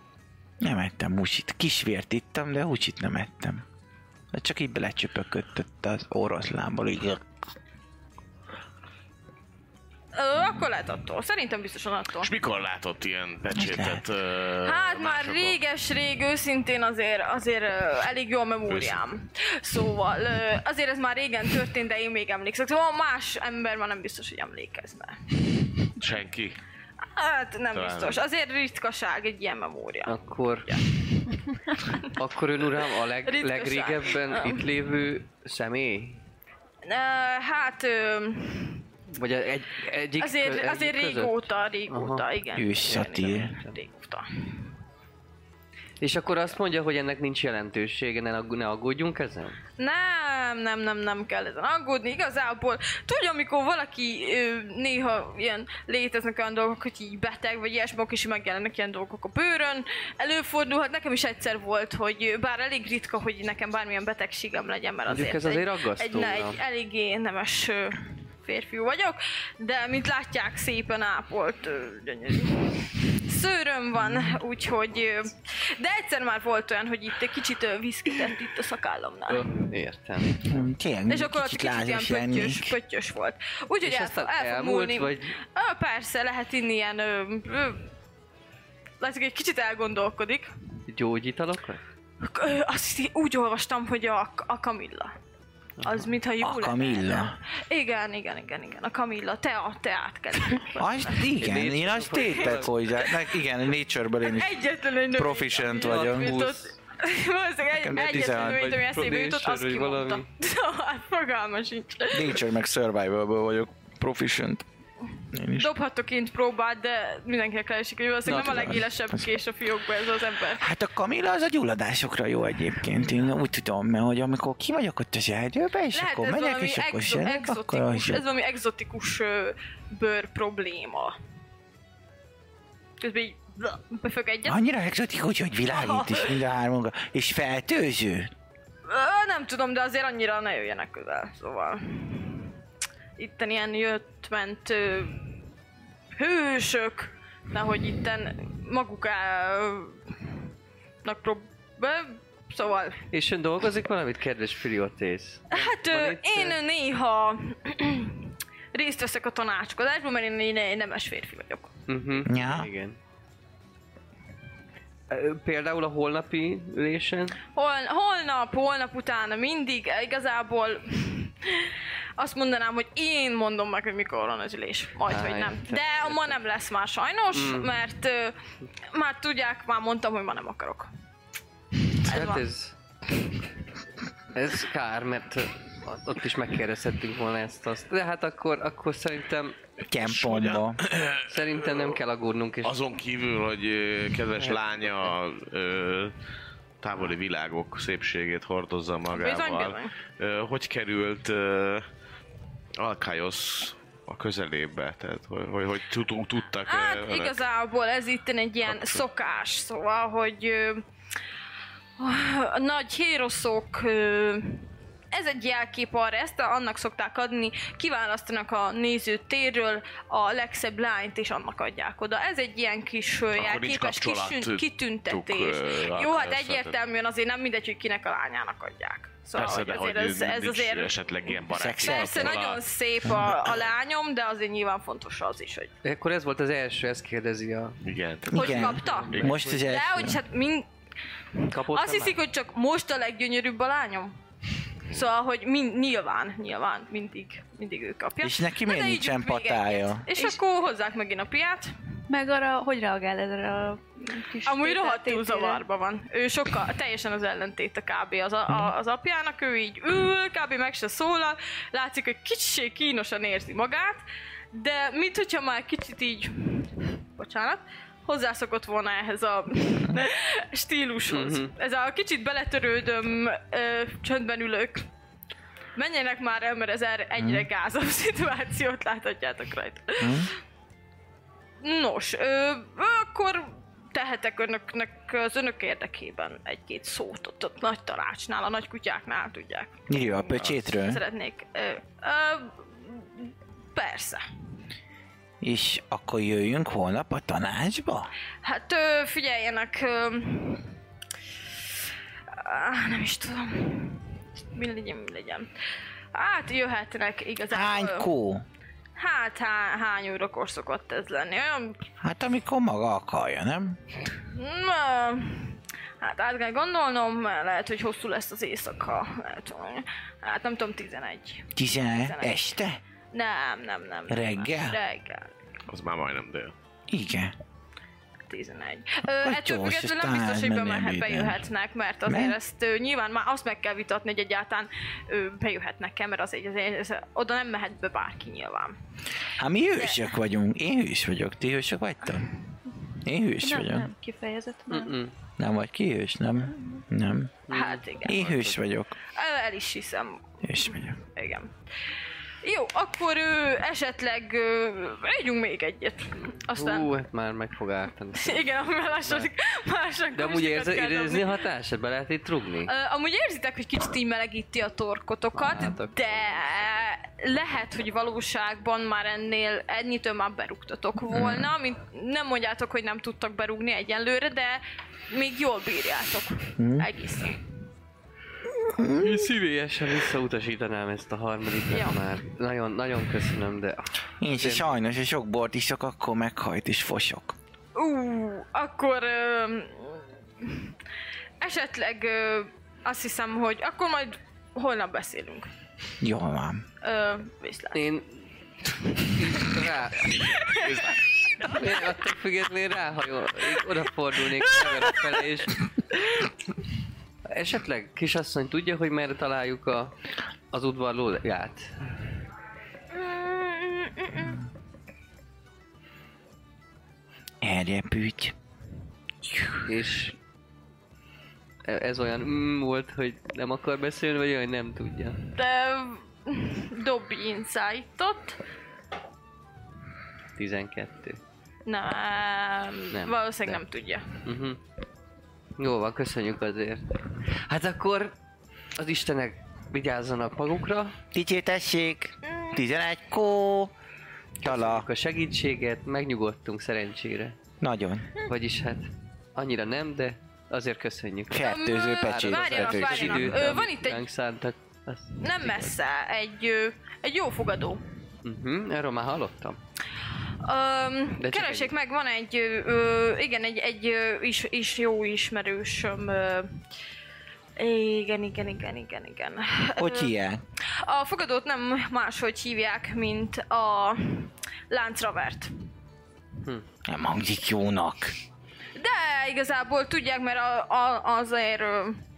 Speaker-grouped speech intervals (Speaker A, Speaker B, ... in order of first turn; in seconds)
Speaker A: 0.6-3.6, 4.3-7.2, 13.5-14.0, 42.6-43.5, 80.4-82.8, 96.4-97.4, 100.8-104.6, 105.1-106.3, 107.7-108.7, 112.1-114.7, 115.3-115.7, 118.3-119.2, 120.6-128.2, 134.5-138.3, 162.2-162.7, 189.8-190.8, 231.5-232.4, 238.3-240.2, 248.2-250.1, 277.2-277.5, 280.0-280.3, 289.9-291.0, 295.4-298.1, 307.5-308.4, 312.0-313.8, 321.5-322.8, 324.1-324.8, 326.9-327.4, 329.2-331.5, 332.1-332.4, 339.4-342.3, 342.9-343.9, 345.4-347.3, 348.0-349.0, 350.4-351.0, 371.1-371.5, 376.6-376.9, 378.6-379.3, 384.2-387.4, 396.0-396.6, 417.4-418.4, 441.1-443.7, 444.4-444.9, 447.6-448.1, 451.3-453.4, 469.8-470.4, 476.9-478.1
Speaker B: 10.1-12.3, 14.6-25.3, 27.0-30.9, 31.8-32.1, 33.3-34.6, 36.9-38.8, 40.2-44.6, 49.8-79.5, 81.1-87.8, 89.0-90.5, 92.2-95.1, 95.8-101.2, 102.5-103.0, 104.2-112.4, 115.5-120.7, 125.9-131.2, 133.0-134.6, 135.7-136.4, 138.9-142.5, 143.2-145.3, 146.2-150.0, 151.0-153.1, 155.5-161.7, 167.5-178.4, 178.9-180.9, 182.0-182.4, 199.1-199.9, 206.6-210.8, 212.0-231.0, 231.8-235.7, 238.3-240.7, 241.4-244.2, 244.9-251.7, 254.4-274.9, 275.8-280.3, 281.6-294.2, 298.4-300.7, 302.3-305.5, 306.1-308.1, 309.0-311.8, 314.2-321.5, 322.0-322.5, 323.1-325.3, 328.3-338.8, 339.8-340.1, 347.5-348.4, 349.0-351.5, 352.4-356.9, 358.2-361.4, 362.7-377.4, 381.7-382.0, 387.8-390.7, 391.4-395.5, 396.8-397.8, 400.1-401.6, 412.9-414.4, 425.4-428.4, 431.7-434.1, 442.2-442.6, 451.4-454.1, 455.2-457.8, 460.4-466.6, 467.6-470.1, 470.8-475.5, 478.8-482.0
Speaker C: 12.2-15.6, 18.7-19.0, 26.0-26.6, 27.7-28.2, 190.0-192.0, 192.6-196.1, 196.8-201.9, 202.8-207.4, 208.7-209.0, 223.3-226.8, 229.3-232.6, 237.8-239.4, 325.7-326.5, 400.6-401.0
Speaker D: 30.1-30.8, 32.0-36.2, 39.1-42.2, 42.9-43.7, 46.0-49.6, 65.1-66.6, 79.3-80.5, 83.8-85.4, 90.9-91.8, 95.8-96.1, 101.2-102.7, 105.7-106.8, 108.0-110.3, 118.3-118.8, 153.1-156.6, 161.9-163.0, 165.1-167.4, 175.1-176.3, 177.3-177.7, 182.0-182.7, 184.3-189.6, 191.3-192.8, 194.4-195.1, 235.8-237.8, 238.4-239.6, 241.5-242.2, 271.1-271.5, 344.7-345.1, 347.5-348.5, 356.2-359.3, 360.1-362.7, 365.4-366.6, 379.0-384.7, 397.7-398.1, 398.7-400.4, 401.4-405.7, 407.3-409.9, 410.5-411.9, 419.6-420.2, 421.6-425.3, 430.4-431.2, 432.9-433.6, 434.1-434.6, 435.6-438.1, 438.8-441.0, 444.4-447.4, 448.2-455.8, 458.2-459.6, 461.2-461.7
Speaker E: 252.1-255.6, 343.4-345.0